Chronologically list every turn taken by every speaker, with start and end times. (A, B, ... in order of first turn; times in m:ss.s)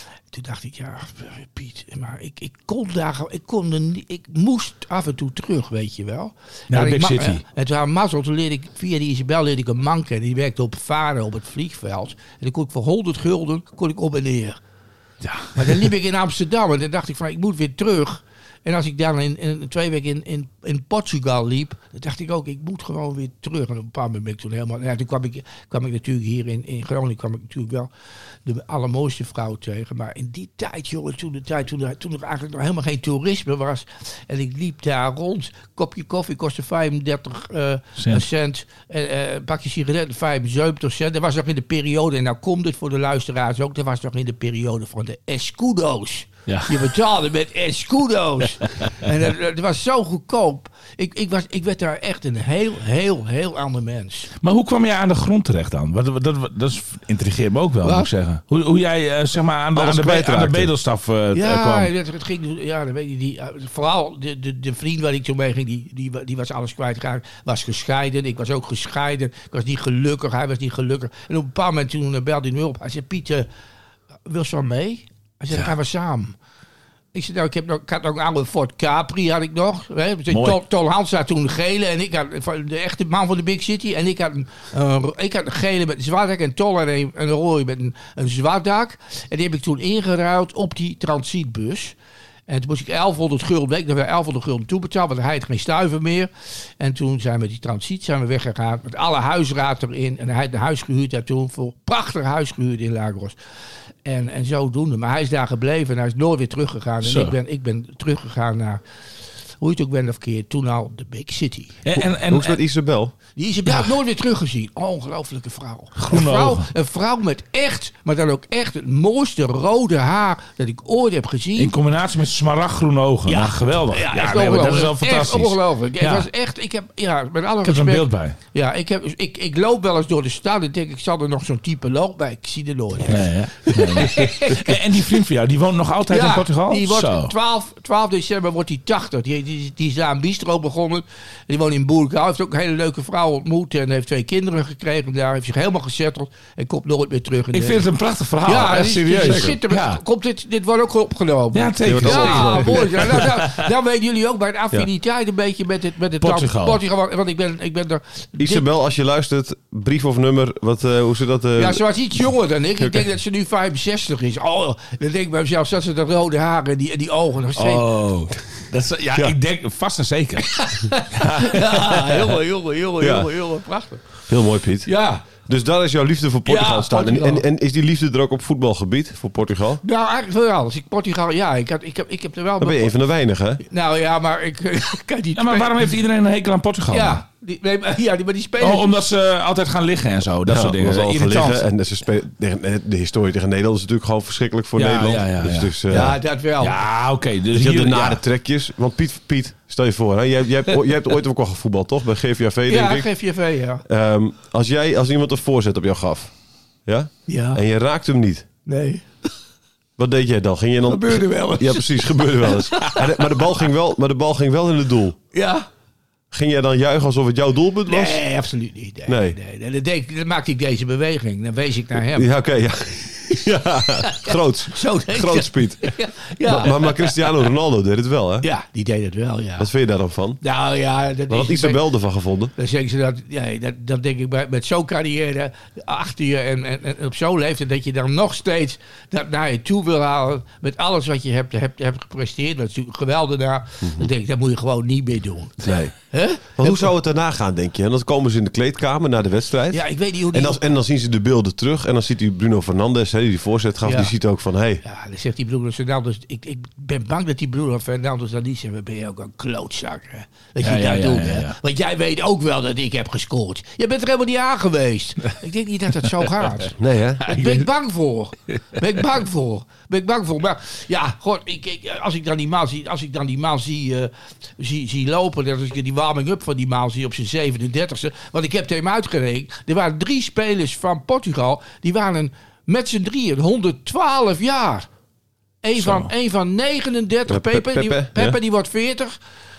0:00.3-0:14.6 A
0:06.7-0:07.4 B
0:15.2-0:15.9 B
0:15.5-0:27.9 A
0:28.4-0:54.3 A
0:38.0-0:38.2 B
0:46.5-0:46.9 B
0:54.4-1:01.9 B
0:57.8-0:58.1 A
0:59.7-1:00.7 C
1:01.3-1:13.5 A
1:14.2-1:16.3 A
1:17.1-1:32.0 A
1:20.3-1:20.6 B
1:32.5-1:43.4 A
1:44.0-1:48.8 A
1:47.0-1:47.3 B
1:49.6-1:51.8 A
1:51.8-1:52.6 B
1:52.0-1:53.1 C
1:53.3-2:01.7 A
1:56.0-1:56.6 B
2:01.6-2:06.3 B
2:03.3-2:15.0 A
2:07.6-2:08.4 B
2:13.1-2:17.3 B
2:16.1-2:27.9 A
2:27.5-2:30.0 B
2:28.4-2:38.6 A
2:29.2-2:29.6 C
2:31.5-2:33.6 B
2:31.8-2:33.2 C
2:36.2-2:36.8 B
2:38.4-2:41.8 C
2:41.6-2:47.9 A
2:47.6-2:52.2 B
2:50.6-2:54.2 A
2:53.0-2:53.3 C
2:54.3-2:59.8 C
2:54.8-2:55.2 A
2:56.4-2:57.4 A
2:59.8-3:02.9 A
3:02.6-3:03.6 C
3:03.6-3:05.9 A
3:05.4-3:07.2 B
3:06.9-3:09.0 A
3:08.6-3:11.7 B
3:10.4-3:16.2 C
3:14.8-3:18.2 B
3:15.9-3:16.8 A
3:17.5-3:23.1 C
3:22.7-3:23.8 A
3:23.8-3:26.3 C
3:26.8-3:28.5 C
3:27.3-3:27.6 A
3:28.6-3:29.3 A
3:30.0-3:35.2 C
3:30.9-3:33.0 A
3:35.3-3:35.6 A
3:36.3-3:38.2 C
3:37.9-3:42.3 A
3:39.1-3:39.4 C
3:42.0-3:48.5 C
3:44.0-3:47.2 A
3:48.4-3:49.7 A
3:49.6-3:50.4 C
3:50.4-3:51.8 A
3:51.3-3:52.5 C
3:52.5-4:06.9 A
4:03.8-4:04.1 C
4:05.6-4:05.9 C
4:06.5-4:14.8 C
4:09.7-4:10.6 A
4:13.8-4:14.1 A
4:14.8-4:44.9 A
4:20.6-4:21.5 B
4:26.8-4:27.2 C
4:27.3-4:27.6 B
4:45.6-4:49.2 A
4:45.8-4:46.1 B
4:47.3-4:48.4 C